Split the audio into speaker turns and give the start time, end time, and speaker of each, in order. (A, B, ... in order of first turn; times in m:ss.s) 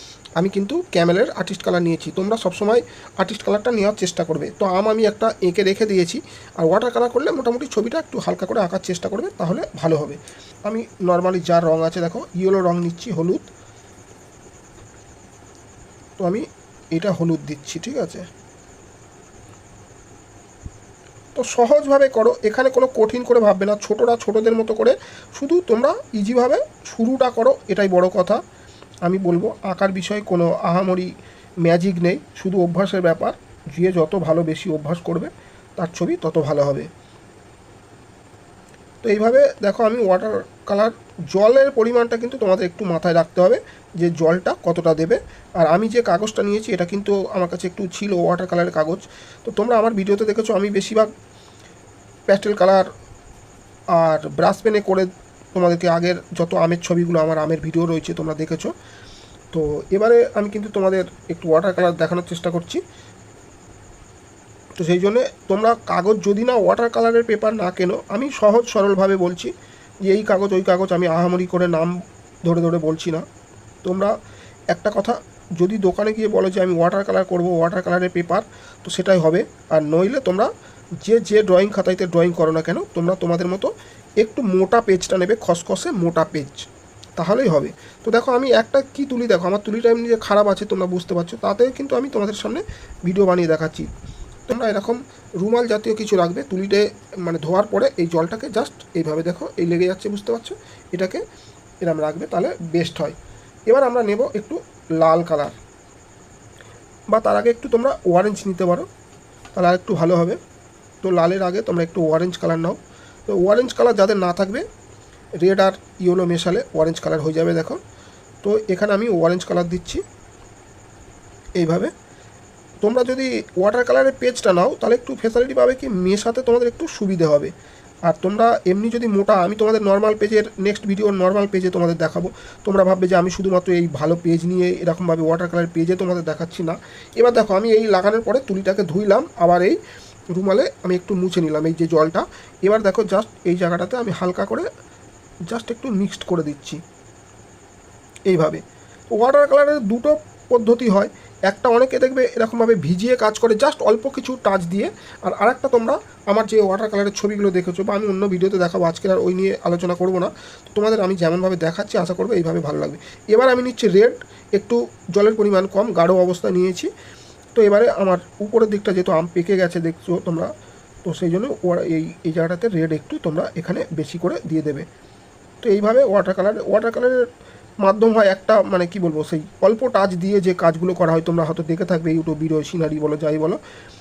0:00.4-0:13.5 A
0:16.2-0:18.3 A
0:21.3-0:28.4 A
0:29.0-0:31.1 A
0:31.6-0:36.9 A
0:39.0-0:51.1 A
0:52.3-0:52.9 A
0:53.9-0:58.7 A
0:59.5-1:02.8 A
1:04.8-1:09.5 A
1:10.0-1:13.2 A
1:13.8-1:14.1 A
1:14.7-1:20.5 A
1:21.0-1:26.6 A
1:27.2-1:33.9 A
1:34.5-1:41.2 A
1:41.8-1:43.2 A
1:43.7-1:45.6 A
1:47.1-1:48.9 A
1:49.6-1:50.4 A
1:51.0-1:54.6 A
1:55.4-1:57.8 A
1:58.4-2:00.0 A
2:01.6-2:01.9 A
2:02.8-2:07.5 A
2:08.0-2:19.8 A
2:20.3-2:24.6 A
2:25.5-2:26.8 A
2:28.3-2:28.6 A
2:29.1-2:46.9 A
2:47.5-2:50.5 A
2:51.0-2:54.8 A
2:55.6-2:57.3 A
2:57.8-3:03.6 A